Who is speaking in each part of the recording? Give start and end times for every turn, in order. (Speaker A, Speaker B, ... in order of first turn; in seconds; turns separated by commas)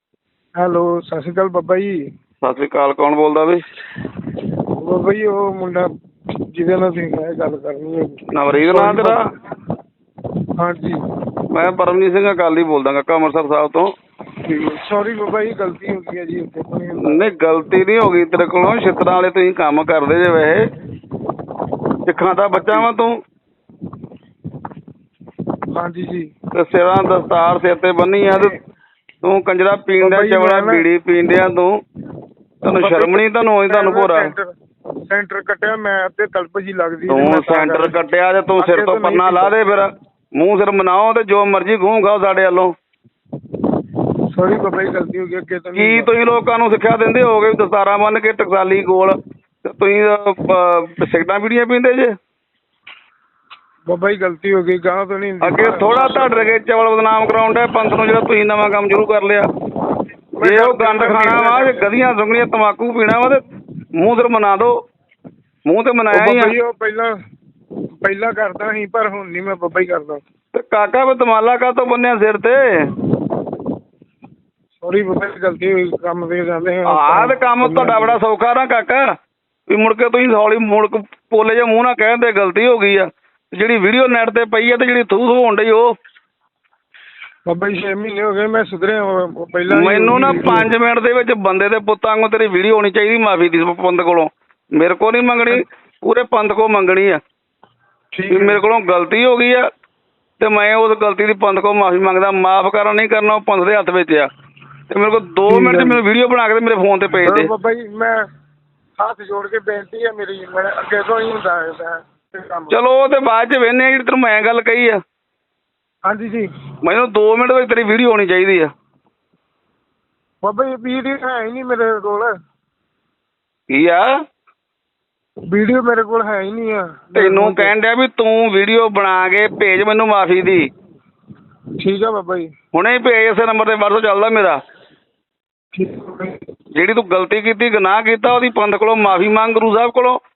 Speaker A: 0.6-2.0, Speaker B: 2.4-3.6, Speaker A: 4.8-5.9, Speaker A: 6.5-9.2, Speaker B: 8.3-9.1, Speaker A: 10.6-11.0, Speaker B: 11.5-13.9, Speaker A: 14.5-17.6, Speaker B: 17.0-20.7, Speaker B: 22.1-23.1, Speaker A: 22.5-22.8, Speaker A: 25.7-26.3, Speaker B: 26.5-28.5, Speaker B: 29.2-31.7, Speaker A: 30.0-30.9, Speaker B: 32.6-34.3, Speaker A: 32.7-34.5, Speaker A: 35.1-38.0, Speaker B: 37.1-42.7, Speaker A: 38.6-39.8, Speaker A: 44.3-46.1, Speaker B: 45.8-52.1, Speaker A: 53.9-56.6, Speaker B: 55.4-59.5, Speaker A: 60.4-61.9, Speaker B: 60.4-63.4, Speaker B: 64.0-64.7, Speaker B: 65.7-66.5, Speaker A: 66.1-67.1, Speaker A: 68.0-70.2, Speaker B: 70.5-72.6, Speaker A: 74.8-78.2, Speaker B: 76.9-79.0, Speaker B: 79.7-85.9, Speaker A: 87.5-90.7, Speaker B: 89.7-97.2, Speaker A: 98.1-98.6, Speaker B: 98.3-99.6, Speaker B: 100.4-104.3, Speaker B: 104.9-107.5, Speaker A: 105.5-106.0, Speaker A: 107.2-108.2, Speaker A: 109.0-112.8, Speaker B: 112.7-115.0, Speaker A: 116.0-116.5, Speaker B: 116.8-118.7, Speaker A: 120.4-122.3, Speaker B: 123.7-124.0, Speaker A: 125.5-127.7, Speaker B: 127.2-130.6, Speaker A: 131.8-132.5, Speaker B: 132.7-134.6, Speaker A: 135.7-136.4, Speaker B: 136.7-140.2